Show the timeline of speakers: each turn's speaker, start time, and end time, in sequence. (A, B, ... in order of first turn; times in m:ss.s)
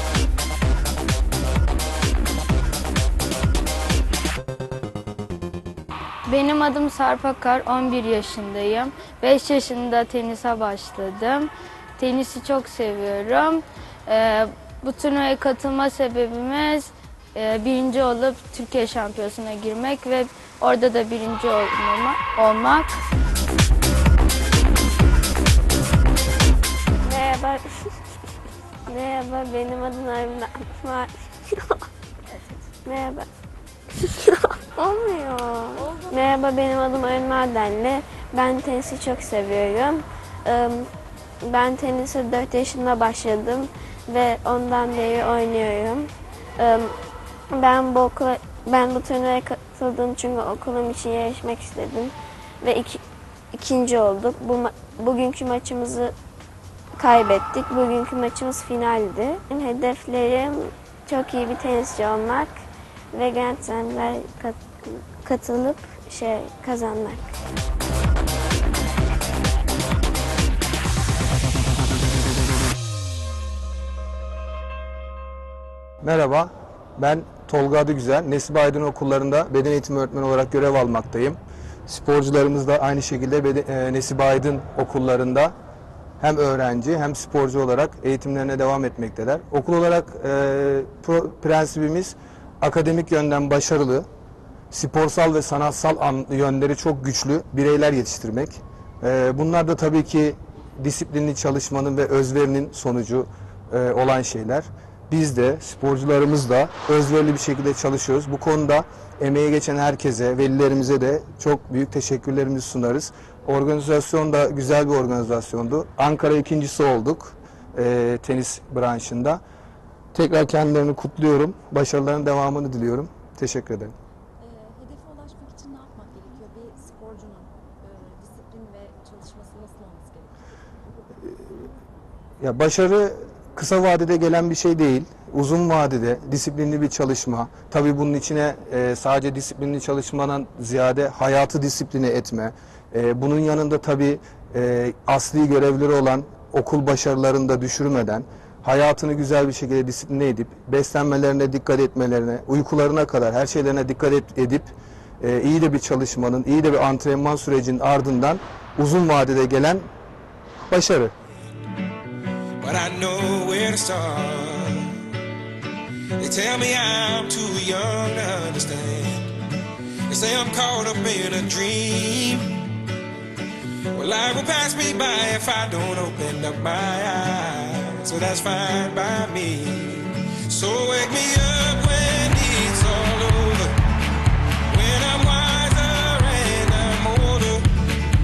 0:06.3-0:23.0 A
0:27.0-0:27.9 B
0:28.9-0:31.6 B
0:32.3-0:32.7 C
0:32.8-0:33.3 B
0:34.8-0:40.9 B
0:35.8-0:36.1 C
0:41.4-0:47.0 B
0:47.5-0:53.0 B
0:53.5-0:56.1 B
0:57.0-1:02.6 B
1:03.1-1:07.4 B
1:16.0-1:25.5 D
1:26.2-1:34.1 D
1:34.7-1:59.4 D
2:00.1-2:03.9 D
2:04.4-2:10.4 C
2:12.4-2:39.9 D
2:40.7-2:41.1 D
2:42.6-2:44.9 E
2:46.2-2:49.3 E
2:50.1-2:52.5 E
2:54.0-3:03.8 E
3:04.7-3:07.7 E